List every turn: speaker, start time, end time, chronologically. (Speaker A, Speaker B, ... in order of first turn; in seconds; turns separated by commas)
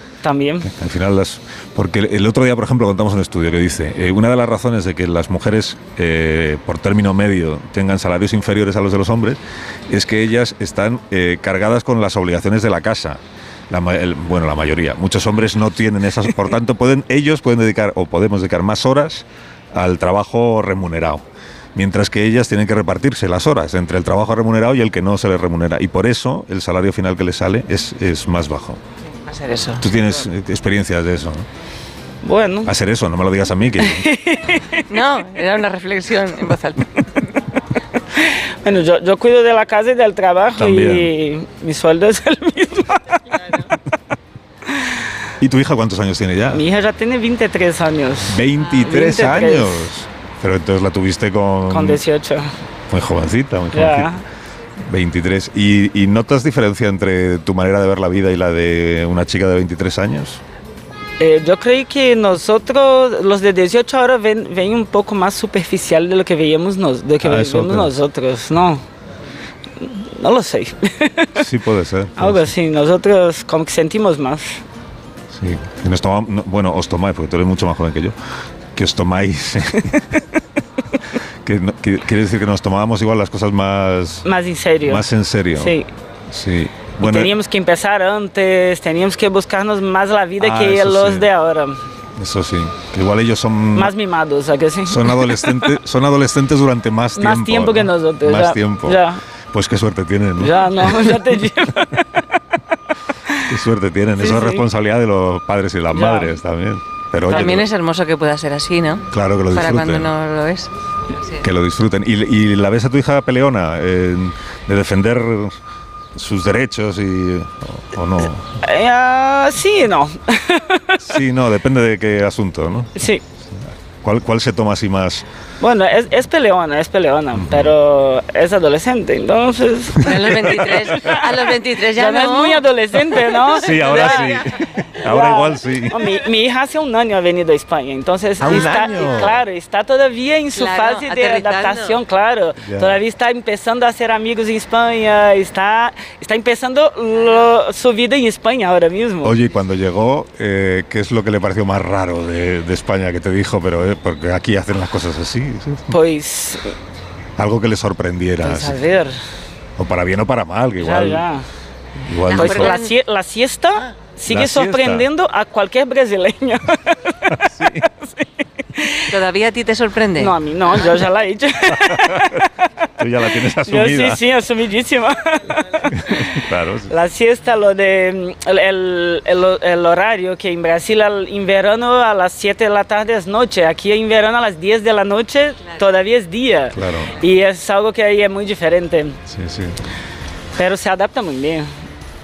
Speaker A: 0.2-0.7, Speaker B: 0.6-21.2, Speaker B: 21.8-28.8, Speaker C: 29.2-29.8, Speaker B: 29.8-31.4, Speaker A: 32.2-32.7, Speaker B: 32.6-34.0, Speaker A: 33.8-34.8, Speaker C: 34.9-37.4, Speaker A: 38.1-43.7, Speaker B: 40.5-41.1, Speaker B: 45.4-46.6, Speaker A: 46.5-49.9, Speaker B: 48.3-52.0, Speaker A: 51.7-52.5, Speaker B: 52.9-54.1, Speaker A: 53.7-54.2, Speaker B: 54.9-60.4, Speaker A: 61.2-68.8, Speaker B: 67.2-67.9, Speaker A: 69.8-71.4, Speaker B: 71.3-72.5, Speaker A: 72.2-74.6, Speaker B: 75.3-78.2, Speaker B: 78.7-80.1, Speaker B: 81.4-84.2, Speaker A: 84.2-85.9, Speaker B: 84.8-85.8, Speaker B: 86.3-87.3, Speaker A: 87.0-91.8, Speaker B: 90.4-91.3, Speaker B: 92.2-93.9, Speaker A: 93.7-95.7, Speaker B: 94.8-99.0, Speaker A: 97.2-99.2, Speaker B: 99.5-101.1, Speaker A: 100.4-102.2, Speaker B: 103.5-107.7, Speaker A: 104.2-104.6, Speaker A: 105.9-106.4, Speaker A: 107.2-107.6, Speaker C: 107.3-111.4, Speaker B: 109.1-110.1, Speaker B: 111.4-115.5, Speaker B: 116.1-118.5, Speaker A: 118.6-121.2, Speaker B: 121.0-125.2, Speaker A: 123.0-123.2, Speaker A: 125.6-149.4, Speaker B: 127.3-127.7, Speaker C: 130.0-132.7, Speaker B: 130.0-131.2, Speaker C: 133.2-134.4, Speaker B: 133.5-136.0, Speaker B: 138.4-139.4, Speaker C: 140.5-142.0, Speaker B: 142.6-143.0, Speaker B: 149.2-155.9, Speaker A: 155.9-156.7, Speaker B: 157.4-158.8, Speaker A: 158.4-159.2, Speaker B: 159.8-161.2, Speaker A: 160.8-161.4, Speaker B: 162.0-162.8, Speaker C: 162.3-162.9, Speaker A: 162.3-169.2, Speaker B: 164.3-165.1, Speaker B: 167.3-167.8, Speaker C: 169.1-170.3, Speaker A: 170.2-172.4, Speaker B: 171.8-172.4, Speaker B: 173.0-174.2, Speaker A: 173.5-189.2, Speaker B: 175.9-176.9, Speaker B: 186.7-187.1, Speaker B: 189.3-189.8, Speaker A: 190.6-191.7